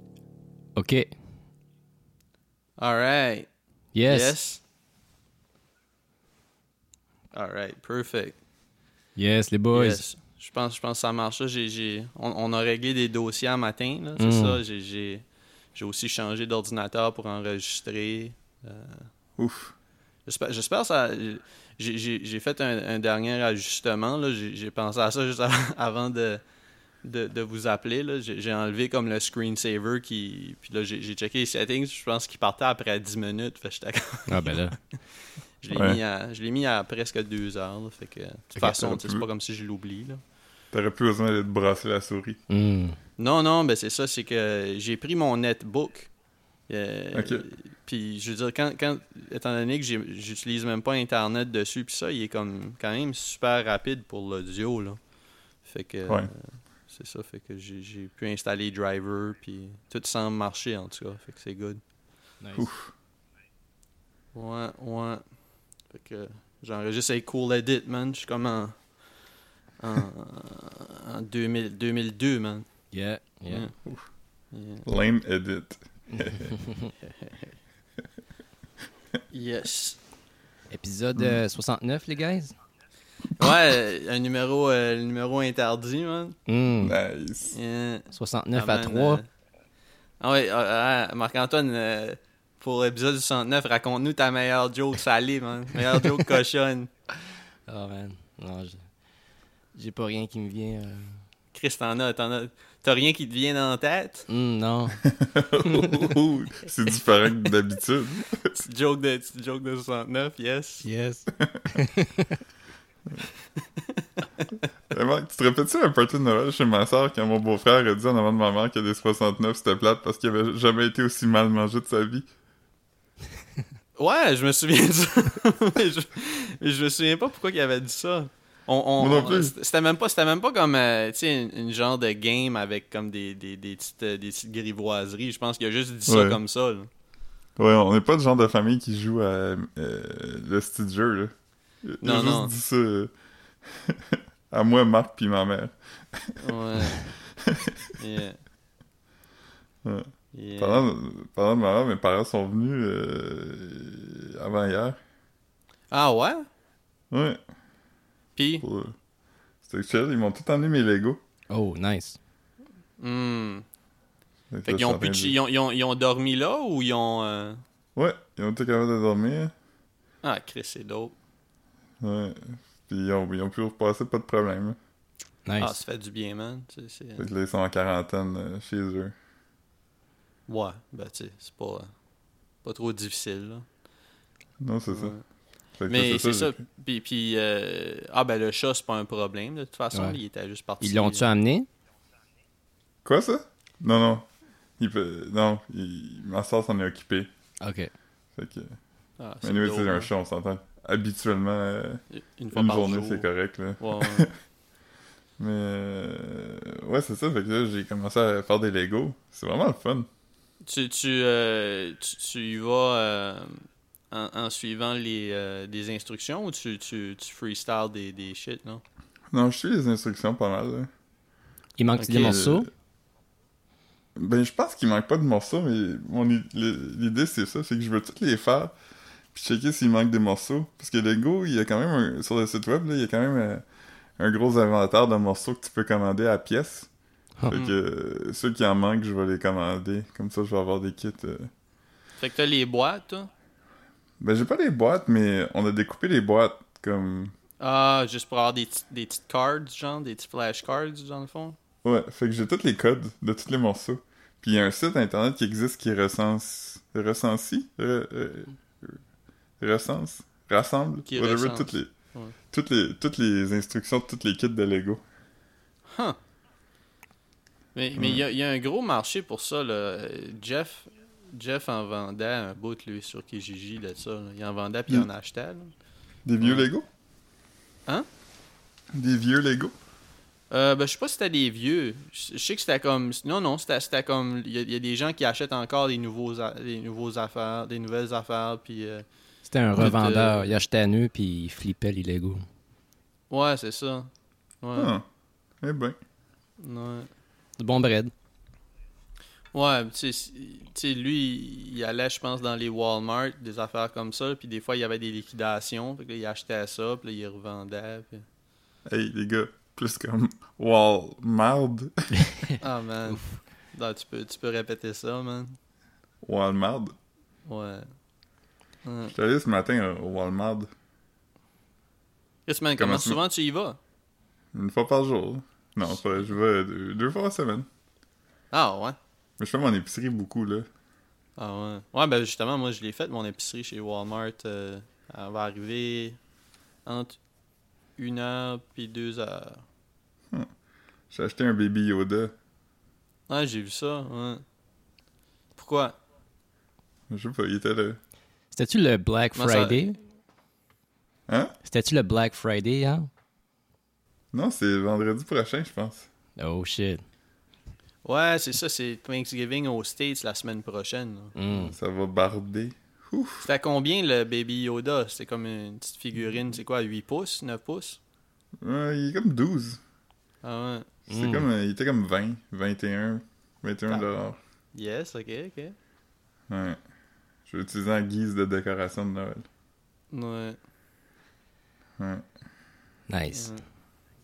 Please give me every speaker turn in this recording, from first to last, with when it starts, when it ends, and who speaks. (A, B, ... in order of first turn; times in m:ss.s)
0:00.8-0:01.1 A
0:02.8-0:03.5 B
0:03.9-0:04.4 A
0:04.0-0:04.6 B
0:07.3-0:08.4 B
0:09.2-0:10.0 A
0:09.7-0:15.2 B
0:14.2-0:14.6 A
0:15.7-0:19.1 B
0:19.4-0:19.7 C
0:20.2-0:26.4 B
0:27.0-0:35.0 B
0:34.3-0:34.8 A
0:35.6-0:40.2 B
0:35.7-0:36.0 C
0:38.6-0:39.2 C
0:40.7-0:42.4 C
0:42.5-0:43.0 A
0:43.2-0:46.1 B
0:46.7-0:55.0 B
0:47.1-0:47.4 C
0:55.6-1:01.8 B
1:02.5-1:02.9 C
1:04.3-1:05.2 B
1:05.9-1:09.0 B
1:09.8-1:12.7 B
1:12.9-1:13.7 A
1:13.5-1:13.8 B
1:14.5-1:14.8 B
1:14.8-1:16.6 C
1:17.2-1:17.5 B
1:19.3-1:20.0 B
1:20.7-1:22.5 A
1:21.1-1:21.4 C
1:23.4-1:26.4 B
1:26.5-1:27.0 A
1:26.8-1:27.6 C
1:27.5-1:29.3 B
1:28.1-1:29.2 A
1:30.2-1:36.9 B
1:37.7-1:38.9 A
1:39.7-1:41.2 A
1:41.5-1:44.3 B
1:44.3-1:45.1 A
1:45.1-1:48.6 C
1:45.7-1:46.0 A
1:48.6-1:50.8 B
1:50.8-1:52.3 A
1:51.4-1:51.7 C
1:54.9-2:02.3 C
2:04.0-2:16.9 B
2:09.0-2:09.5 C
2:16.1-2:16.4 C
2:17.6-2:23.1 C
2:22.0-2:22.5 B
2:23.6-2:28.0 C
2:26.4-2:27.0 B
2:28.0-2:28.4 B
2:29.8-2:35.0 C
2:30.3-2:30.8 B
2:35.9-2:36.5 B
2:37.1-2:37.4 C
2:38.4-2:38.6 B
2:38.6-2:39.0 C
2:39.6-2:41.2 C
2:41.5-2:42.2 A
2:43.0-2:43.6 B
2:44.5-2:45.3 C
2:44.6-2:47.6 B
2:48.0-2:49.5 C
2:50.2-2:51.1 B
2:52.0-2:54.8 C
2:55.4-2:55.7 A
2:55.6-2:57.2 B
2:57.2-2:59.1 C
3:00.5-3:01.9 B
3:02.6-3:03.6 B
3:04.6-3:05.2 C
3:04.9-3:05.2 B
3:05.8-3:06.6 C
3:05.9-3:11.3 B
3:09.9-3:10.2 A
3:10.8-3:11.7 A
3:13.0-3:14.3 C
3:14.8-3:17.3 C
3:17.6-3:17.9 A
3:18.4-3:18.8 C
3:19.2-3:20.1 B
3:19.4-3:24.3 C
3:22.1-3:24.3 B
3:25.4-3:30.1 C
3:30.7-3:38.8 B
3:39.3-3:40.9 C
3:41.8-3:42.7 A
3:42.0-3:42.5 B
3:42.1-3:42.7 C
3:44.1-3:48.7 C
3:49.3-3:53.6 C
3:54.2-3:56.9 C
3:57.5-4:01.5 C
4:02.2-4:03.3 B
4:04.2-4:07.3 C
4:07.6-4:11.6 B
4:11.8-4:19.0 C
4:19.6-4:21.9 C
4:21.1-4:22.3 B
4:22.5-4:25.0 C
4:25.9-4:26.2 B
4:27.7-4:35.7 B
4:28.0-4:28.2 C
4:36.2-4:36.9 C
4:36.4-4:36.7 B
4:38.9-4:39.7 C
4:40.5-4:49.0 B
4:49.4-4:52.5 A
4:49.8-4:50.5 B
4:53.3-4:54.1 B
4:54.6-4:54.9 B
4:54.7-4:55.0 C
4:55.6-4:56.0 C
4:56.6-4:57.1 B
4:57.6-4:58.1 A
4:59.5-5:08.2 B
5:08.8-5:12.1 C
5:12.6-5:15.6 B
5:16.2-5:16.9 C
5:17.5-5:18.0 B
5:18.8-5:19.1 B
5:19.1-5:20.7 C
5:22.4-5:23.8 B
5:22.8-5:23.2 C
5:24.5-5:27.7 C
5:28.5-5:29.0 B
5:29.4-5:30.7 C
5:31.4-5:36.2 B
5:36.8-5:37.2 B
5:38.0-5:39.6 B
5:41.1-5:42.3 C
5:43.3-5:44.4 B
5:45.6-5:46.0 B
5:47.1-5:48.0 C
5:48.5-5:49.9 A
5:49.3-5:49.9 B
5:51.3-5:51.5 C
5:51.6-5:53.1 A
5:54.3-5:56.1 C
5:56.4-5:57.0 A
5:58.0-6:01.3 B
6:01.4-6:01.7 A
6:01.5-6:03.5 C
6:03.4-6:08.0 B
6:08.6-6:09.8 C
6:10.4-6:10.9 B
6:11.1-6:14.4 C
6:11.1-6:11.4 A
6:14.7-6:15.8 B
6:16.5-6:16.8 C
6:17.5-6:19.5 C
6:20.1-6:20.6 B
6:22.0-6:22.2 C
6:23.1-6:23.5 A
6:23.3-6:23.6 B